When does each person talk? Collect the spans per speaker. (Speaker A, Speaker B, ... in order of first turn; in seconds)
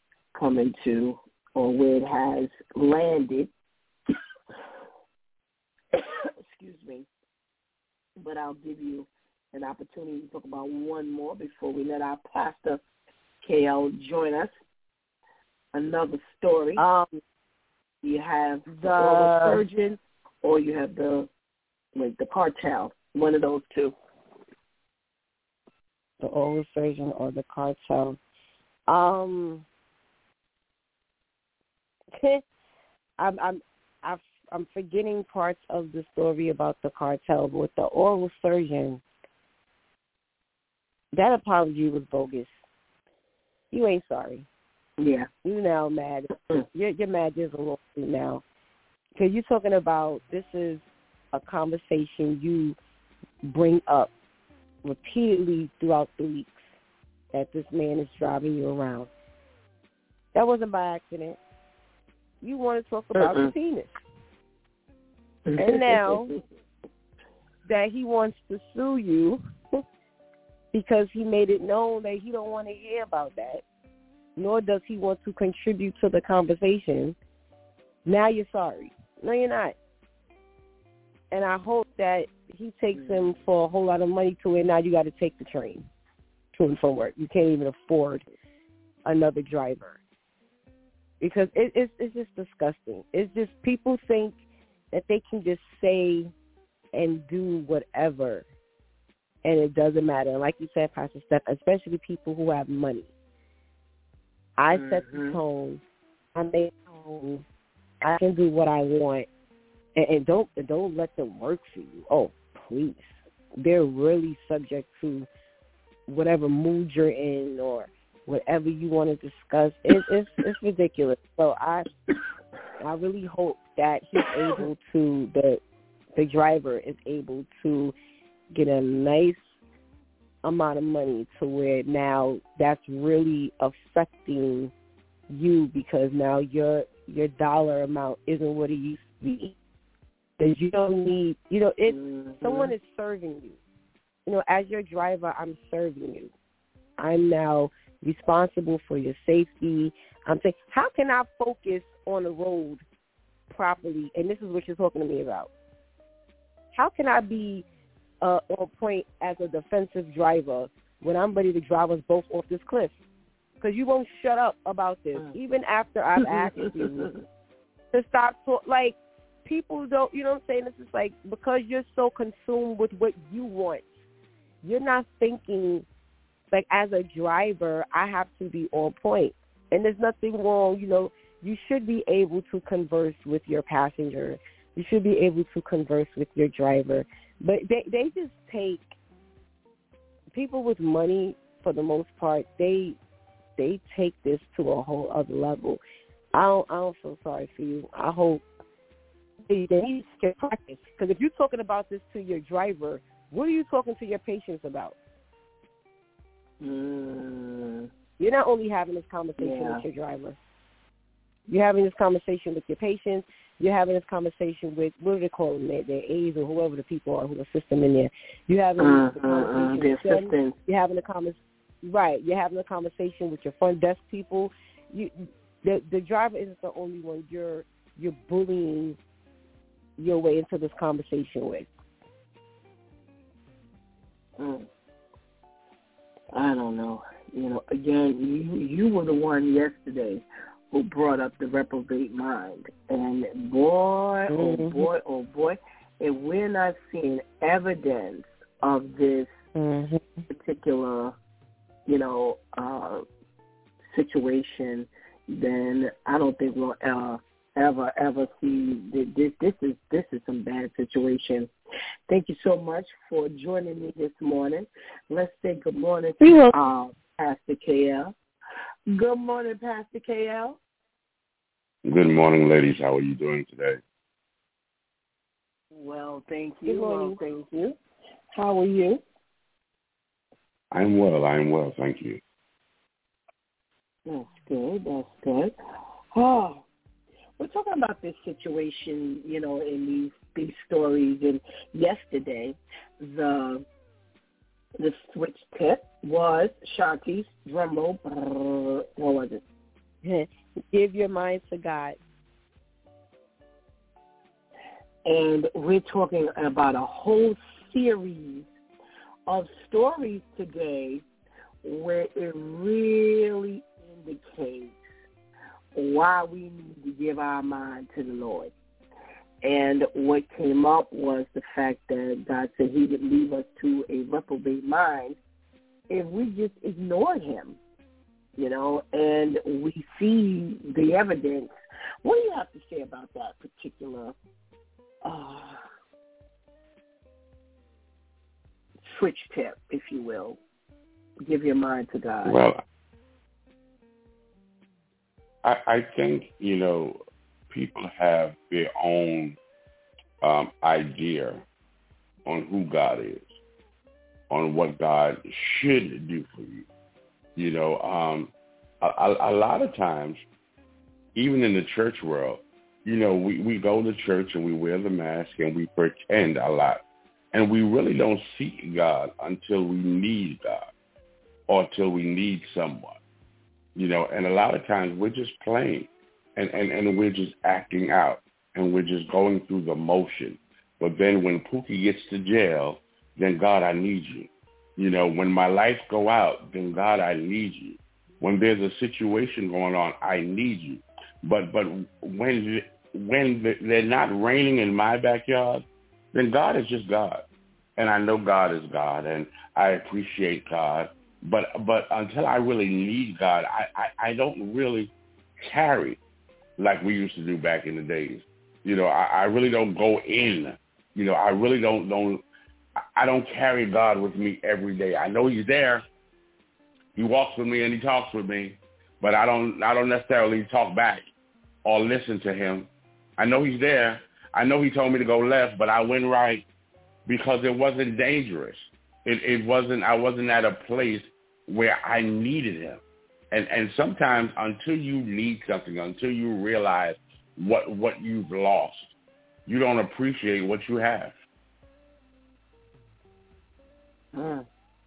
Speaker A: 0.3-3.5, 5.9-7.1, 8.2-12.8, 13.4-14.5, 15.7-16.8, 18.0-21.3, 21.9-23.9, 45.0-45.3, 63.2-63.5, 65.5-66.4, 104.7-105.4, 141.9-142.7, 166.2-167.2, 206.6-207.9, 209.4-209.8, 218.8-220.6, 234.4-234.7, 236.3-249.3, 250.3-251.2, 251.9-253.0, 253.8-261.5, 262.1-268.1, 268.9-270.6, 275.8-277.8, 278.3-279.0, 284.1-285.6, 286.1-286.6, 287.4-293.7, 294.8-299.4, 305.1-308.5, 309.3-311.0, 311.6-314.8, 315.8-318.5, 319.4-325.2, 325.9-327.6, 328.4-331.5, 332.0-334.1, 335.0-335.6, 338.9-340.4, 341.3-342.4, 444.1-444.5
Speaker B: 16.8-17.2, 18.7-19.6, 26.2-28.2, 28.9-29.6, 32.1-32.4, 33.2-39.0, 41.1-42.5, 43.7-44.5, 45.4-48.4, 49.2-52.8, 53.4-54.1, 54.8-56.6, 57.3-59.1, 60.3-61.4, 62.4-63.9, 65.6-66.4, 67.7-69.8, 70.7-73.6, 74.4-77.2, 78.0-79.8, 81.3-85.8, 86.5-88.2, 89.0-90.0, 91.2-94.4, 94.9-96.3, 96.9-98.4, 99.5-103.1, 104.6-105.8, 106.3-107.4, 108.0-109.3, 110.0-115.3, 116.1-121.9, 122.8-125.6, 126.2-128.0, 128.5-129.4, 130.4-134.7, 135.3-139.6, 140.4-143.6, 144.3-146.3, 147.0-152.8, 153.5-155.5, 156.8-157.7, 158.2-162.9, 163.6-167.1, 167.9-173.9, 174.6-175.8, 176.5-188.9, 190.3-193.0, 193.6-195.8, 196.3-198.4, 199.5-204.9, 208.2-210.4, 211.5-229.0, 230.0-231.7, 244.3-244.9, 249.6-250.2, 266.2-266.5, 276.7-277.2, 300.0-302.0
Speaker C: 271.9-273.8, 280.7-282.2, 342.2-342.6, 345.4-347.0, 347.5-349.4, 350.2-351.4, 352.3-353.3, 354.3-356.6, 357.4-360.2, 361.2-366.8, 367.3-370.6, 371.5-373.0, 373.8-397.2, 397.8-406.0, 406.6-412.2, 413.0-415.9, 417.0-421.0, 421.6-426.5, 427.1-438.9, 439.5-441.1